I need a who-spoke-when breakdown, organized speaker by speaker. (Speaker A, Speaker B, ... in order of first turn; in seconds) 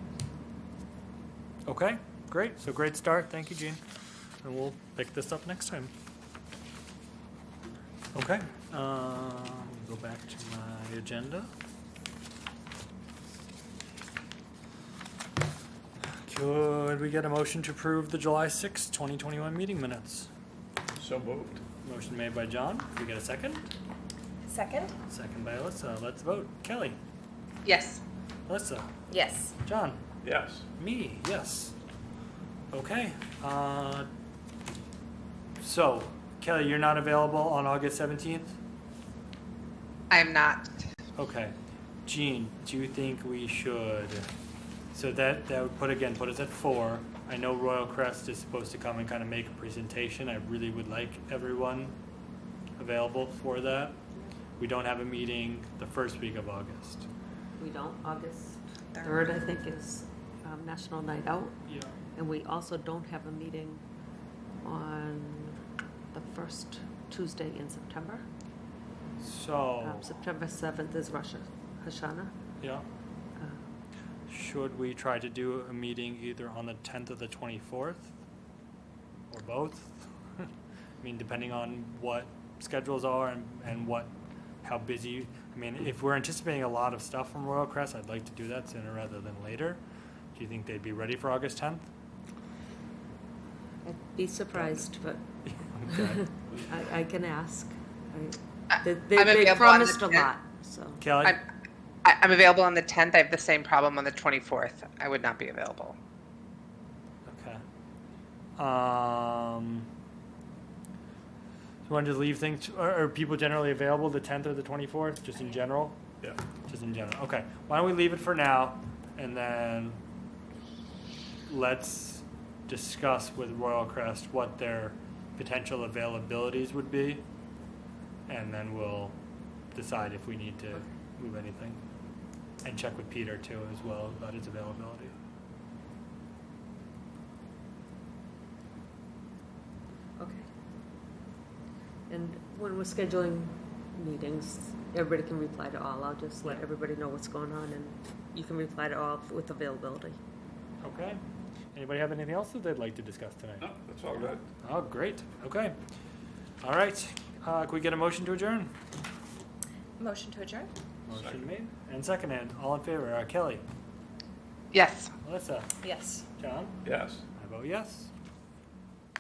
Speaker A: 1.6-3.8, 4.4-5.9, 8.1-11.5, 16.2-20.3, 21.8-23.6, 25.1-27.0, 28.5-28.9, 29.6-30.0, 30.8-31.7, 32.7-34.1, 35.6-38.5, 41.1-41.5, 42.0-44.3, 44.9-51.9, 52.8-54.0, 54.6-57.1, 61.7-61.9, 69.2-70.1, 74.3-78.1, 79.3-80.5, 81.0-84.1, 84.6-89.8, 90.3-91.9, 95.5-96.2, 101.0-101.4, 107.2-107.6, 108.6-109.9, 111.8-116.0, 116.7-120.0, 121.5-127.2, 128.3-129.2, 129.7-131.8, 132.6-135.1, 150.8-151.2, 151.7-153.7, 154.6-155.8, 156.6-158.7, 161.1-163.6, 165.2-165.7, 166.3-166.8, 167.3-168.1
Speaker B: 20.9-21.6, 30.2-30.6, 153.6-154.4, 161.1-161.4, 166.8-167.2
Speaker C: 24.5-24.9, 29.1-29.5, 58.9-59.2, 160.0-160.7, 165.8-166.2
Speaker D: 27.6-28.0, 40.1-40.7, 99.1-100.2, 102.0-106.0, 164.7-165.1
Speaker E: 57.6-61.5, 62.1-63.8, 64.6-65.6, 66.1-68.2, 69.8-72.3, 73.3-73.7, 93.8-95.2, 95.8-101.0, 140.2-140.5, 142.1-150.2